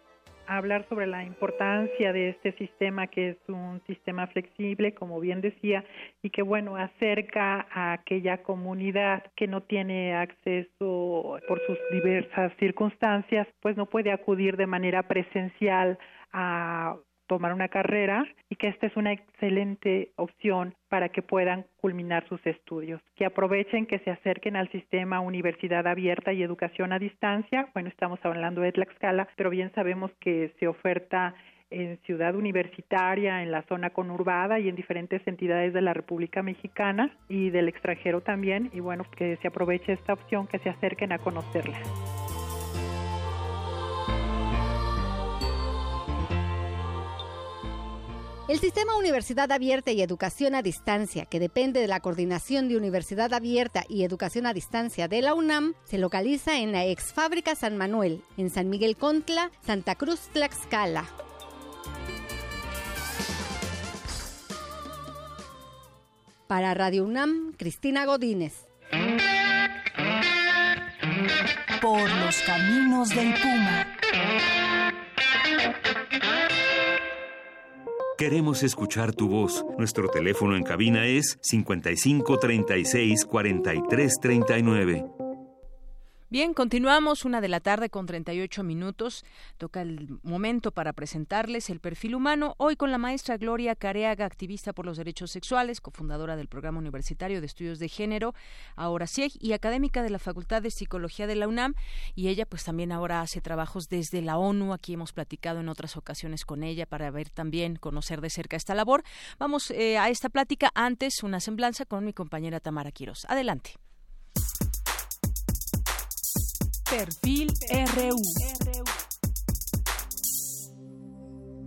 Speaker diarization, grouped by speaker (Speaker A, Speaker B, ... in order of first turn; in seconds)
Speaker A: 0.5-41.8
Speaker B: 48.5-61.1, 66.5-68.7
Speaker C: 71.8-73.9, 117.7-118.1
Speaker D: 78.2-85.1
Speaker E: 86.3-113.8